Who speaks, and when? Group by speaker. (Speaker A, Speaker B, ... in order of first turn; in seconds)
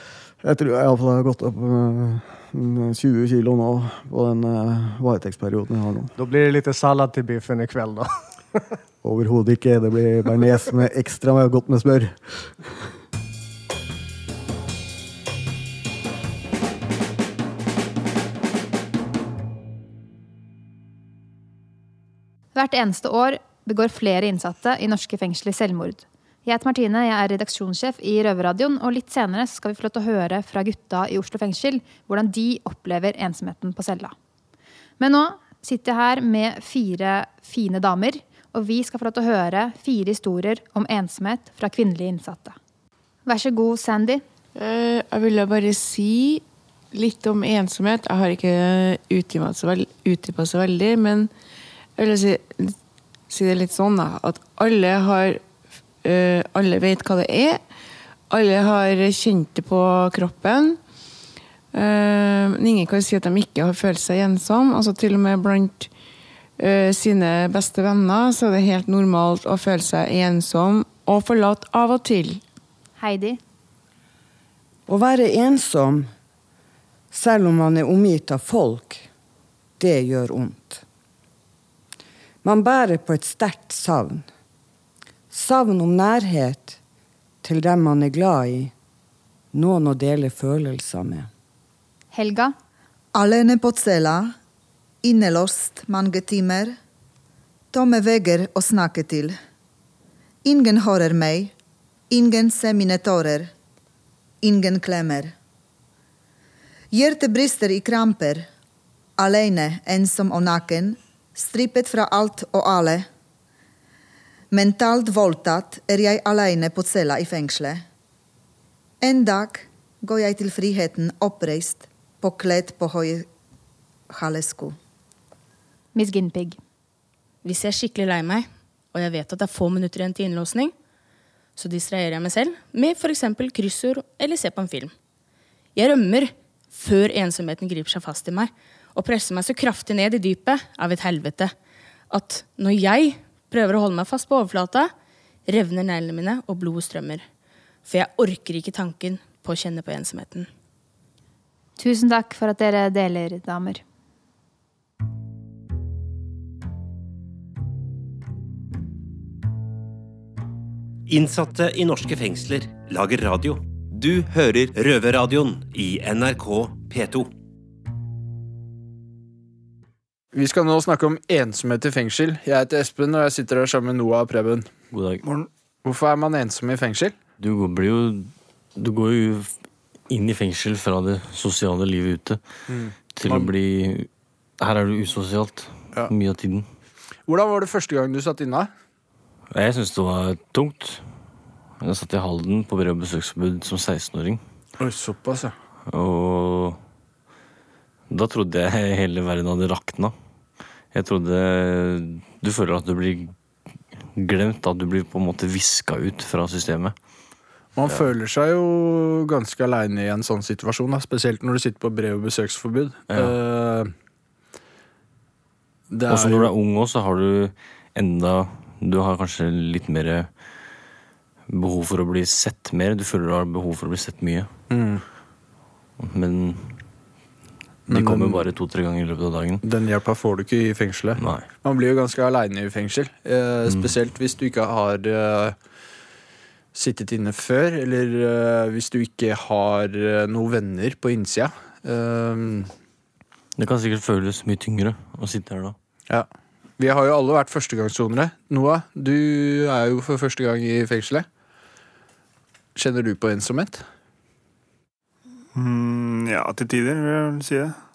Speaker A: 0.4-6.1, 9.0-12.7
Speaker B: 6.2-8.3
Speaker C: 22.5-34.1, 35.0-42.5, 43.2-44.2, 73.0-73.4, 92.1-92.5, 125.9-126.6, 151.8-153.8
Speaker D: 44.5-51.3, 52.0-52.8, 53.3-55.4, 56.0-57.6, 58.3-60.8, 61.7-65.9, 66.6-72.4
Speaker E: 74.9-76.1, 77.1-79.0, 79.8-80.8, 82.4-84.3, 85.3-86.8, 87.4-88.7, 89.5-91.3
Speaker F: 93.1-94.3, 95.0-96.8, 97.7-99.3, 100.4-101.5, 102.1-103.5, 104.4-105.3, 106.9-108.5, 109.2-113.0, 114.5-117.8, 119.0-123.3, 124.1-124.8
Speaker G: 127.4-130.7, 131.6-134.9, 135.7-141.5, 142.1-144.9, 145.4-147.2, 147.8-150.5
Speaker H: 161.1-167.3
Speaker I: 170.3-174.7, 175.8-177.2, 182.7-183.5, 187.3-188.7, 194.8-195.5, 207.8-213.9, 215.9-216.5, 224.7-225.0, 227.9-228.4, 229.6-235.5, 236.7-242.7, 246.8-251.2, 252.7-253.8
Speaker J: 174.9-175.2, 177.4-179.5, 180.1-182.4, 183.1-184.1, 184.6-186.7, 189.5-191.1, 191.8-194.4, 195.9-196.8, 198.1-200.1, 200.9-203.3, 204.1-206.9, 213.1-213.3, 216.1-220.3, 221.5-224.5, 226.0-226.8, 227.9-229.6, 231.2-231.4, 233.7-233.9, 243.6-245.8
Speaker K: 175.2-175.5, 255.5-257.8